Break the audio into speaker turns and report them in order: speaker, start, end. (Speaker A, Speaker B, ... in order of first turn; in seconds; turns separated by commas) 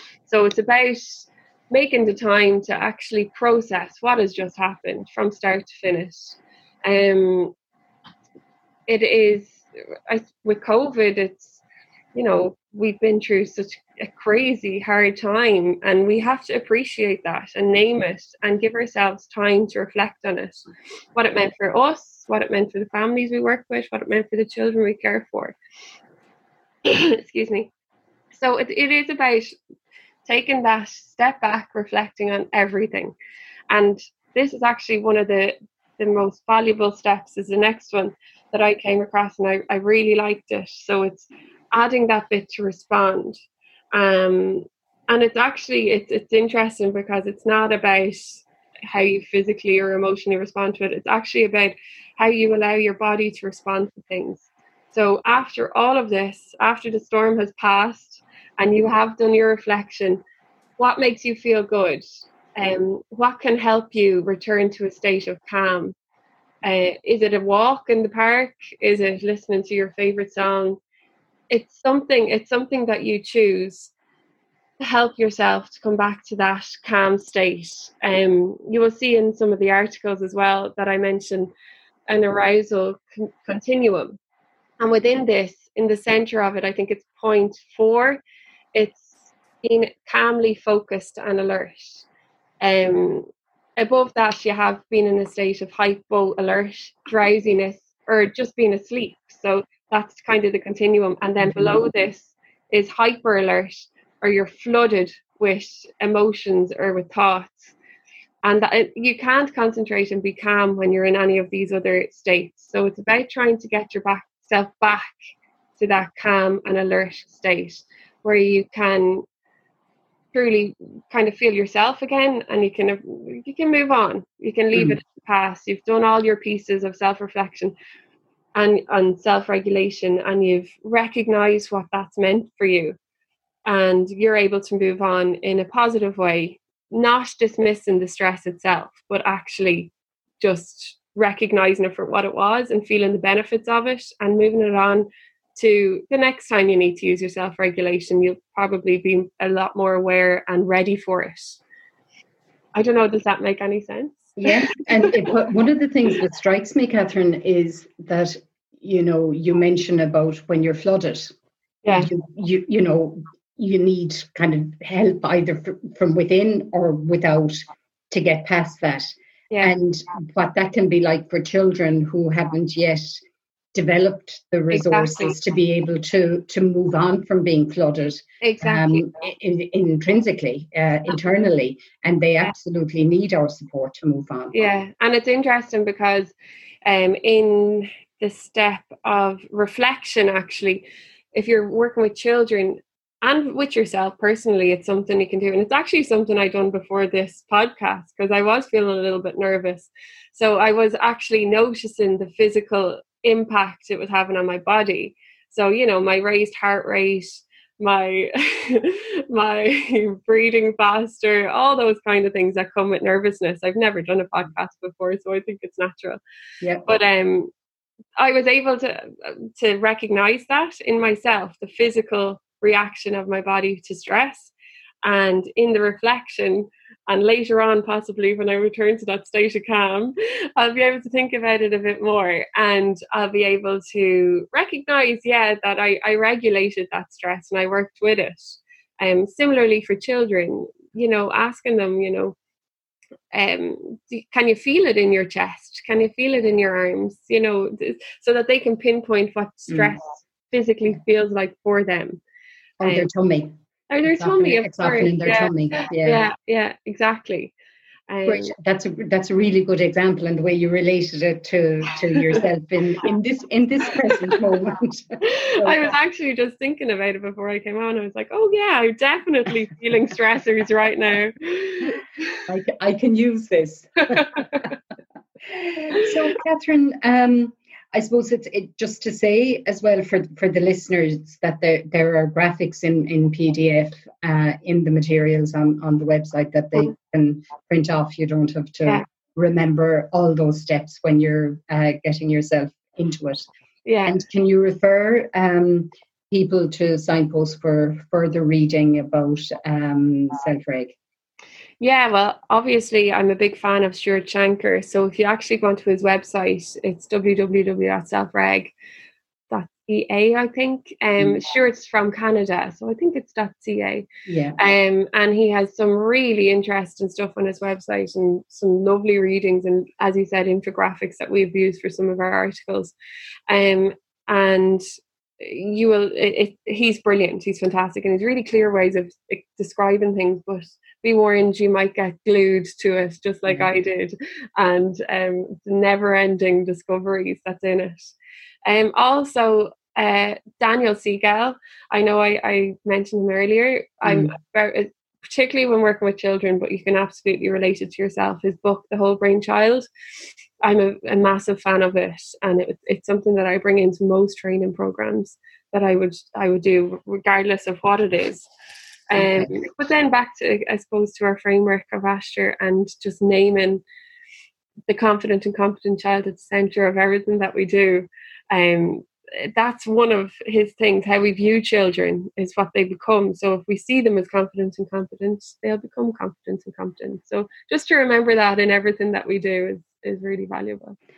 Speaker A: 0.3-7.5, Speaker A: 8.9-11.6, Speaker A: 12.1-20.6, Speaker A: 21.1-25.6, Speaker A: 26.8-27.7, Speaker A: 28.3-29.6, Speaker A: 30.2-33.1, Speaker A: 33.7-43.4, Speaker A: 43.9-60.2, Speaker A: 60.8-62.0, Speaker A: 62.6-65.9, Speaker A: 66.6-70.8, Speaker A: 71.5-73.9, Speaker A: 74.8-81.5, Speaker A: 82.1-84.2, Speaker A: 84.8-88.2, Speaker A: 88.7-92.0, Speaker A: 92.6-107.7, Speaker B: 101.4-101.7, Speaker A: 108.4-115.1, Speaker A: 115.8-119.2, Speaker A: 120.3-127.7, Speaker B: 124.7-125.0, Speaker A: 128.5-132.9, Speaker A: 133.7-151.6, Speaker A: 152.7-155.1, Speaker B: 154.4-161.3, Speaker A: 161.8-162.1, Speaker B: 161.9-173.2, Speaker B: 173.7-184.7, Speaker A: 174.7-175.3, Speaker A: 178.4-179.0, Speaker A: 184.5-186.3, Speaker A: 186.8-216.2, Speaker A: 216.8-217.5, Speaker A: 218.2-224.5, Speaker A: 225.0-242.3, Speaker A: 243.3-252.2, Speaker B: 249.7-249.9, Speaker B: 252.8-253.5, Speaker A: 252.8-253.1, Speaker A: 253.9-257.5, Speaker B: 254.0-256.2, Speaker A: 258.1-258.5, Speaker B: 258.2-265.8, Speaker A: 265.2-272.2, Speaker B: 272.5-274.7, Speaker B: 275.5-293.4, Speaker A: 293.9-294.2, Speaker B: 294.1-300.9, Speaker A: 301.8-308.7, Speaker A: 309.5-314.0, Speaker B: 314.3-314.6, Speaker A: 314.6-322.9, Speaker A: 323.5-324.8, Speaker A: 325.4-338.1, Speaker A: 338.6-349.9, Speaker B: 344.0-344.3, Speaker A: 350.6-358.5, Speaker A: 359.1-363.8, Speaker B: 359.1-359.6, Speaker A: 364.9-380.9